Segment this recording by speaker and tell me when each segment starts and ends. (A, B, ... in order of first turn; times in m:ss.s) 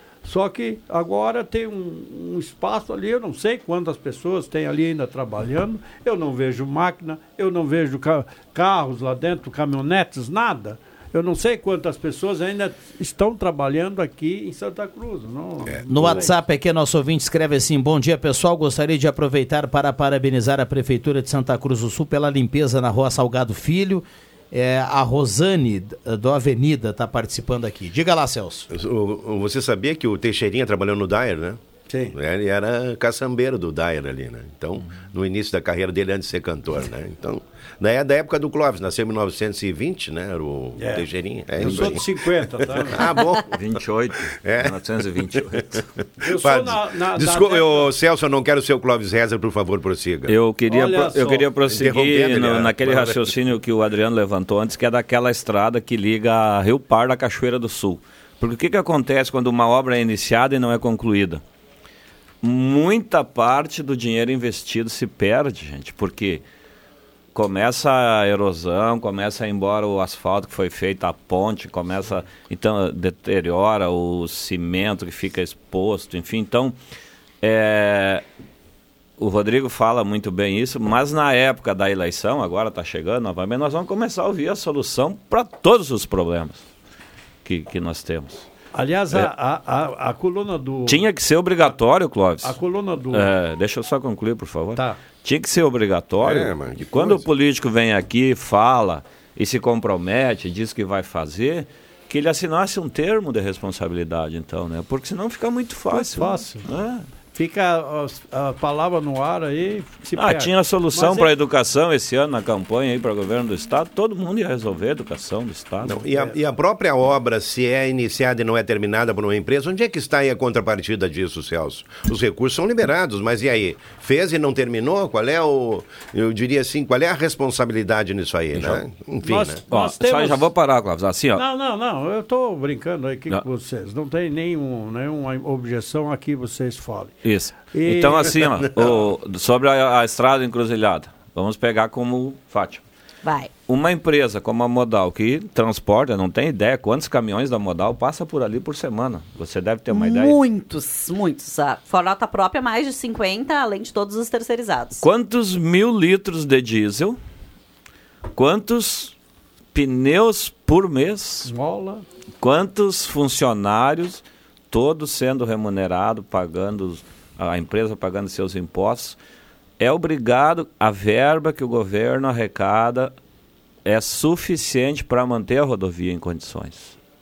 0:00.2-0:16.3 A
0:15.7-0:16.3 B
0:15.9-0:28.7 C
0:28.7-0:31.6 B
0:31.9-0:32.1 A
0:32.1-0:42.1 B
0:40.8-0:41.1 A
0:41.6-0:42.0 D
0:41.6-0:43.0 A
0:42.8-0:43.5 B
0:43.5-0:45.8 D
0:44.4-0:44.7 B
0:46.2-0:47.9 A
0:46.3-0:50.3 B
0:50.3-1:01.4 D
0:50.7-0:51.5 A
0:51.7-0:53.4 B
1:02.4-1:06.4 D
1:07.3-1:16.8 D
1:17.4-1:18.2 D
1:19.2-1:26.7 D
1:27.4-1:28.5 D
1:28.7-1:31.0 A
1:30.9-1:32.6 D
1:32.4-1:33.3 A
1:33.1-1:47.0 D
1:36.2-1:36.9 B
1:45.9-1:46.7 A
1:47.3-1:51.3 A
1:50.1-1:56.1 D
1:55.8-2:09.6 B
2:08.5-2:08.8 D
2:09.2-2:10.5 A
2:09.7-2:11.4 D
2:11.4-2:17.1 A
2:17.2-2:22.8 D
2:17.7-2:18.4 A
2:23.2-2:23.5 E
2:23.7-2:30.4 D
2:29.9-2:35.0 E
2:35.0-2:37.2 D
2:38.3-2:39.1 D
2:39.7-2:41.5 D
2:41.5-2:42.0 A
2:42.4-2:49.2 D
2:49.8-2:53.1 D
2:53.8-2:57.0 D